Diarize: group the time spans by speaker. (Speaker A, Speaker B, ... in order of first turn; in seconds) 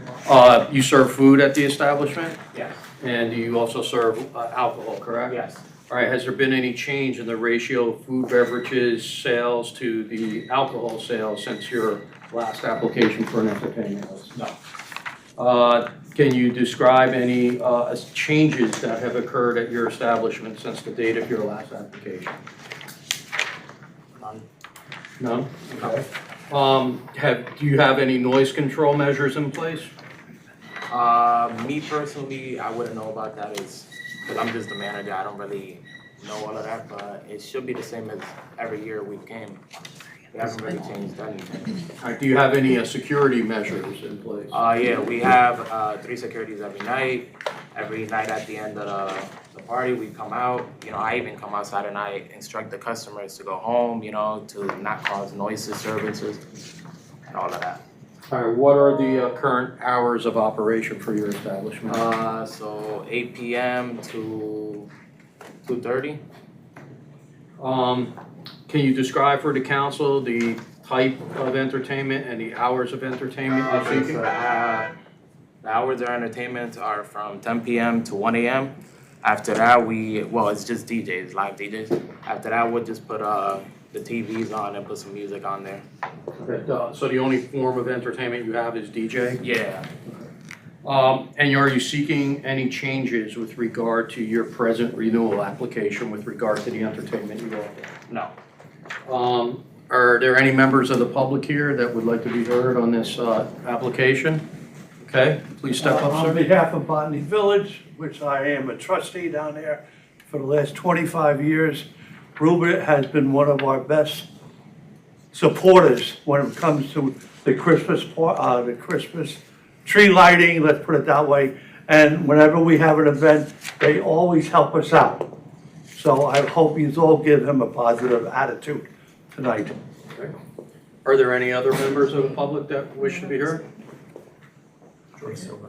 Speaker A: 0.2-2.4, 3.0-5.4, 5.9-14.3, 15.4-22.4, 25.2-29.9, 42.0-44.5, 58.3-62.0, 67.6-68.1, 68.7-74.2, 86.4-89.4, 90.8-97.9, 99.1-104.5, 105.0-106.4, 131.0-133.6
Speaker B: 2.5-2.8, 5.3-5.6, 24.2-24.4, 30.9-39.6, 40.3-41.9, 44.5-56.4, 57.3-57.8, 61.9-64.9, 65.6-66.2, 73.7-74.9, 75.6-85.8, 89.4-89.9
Speaker C: 105.8-114.3, 115.3-125.3, 125.9-129.7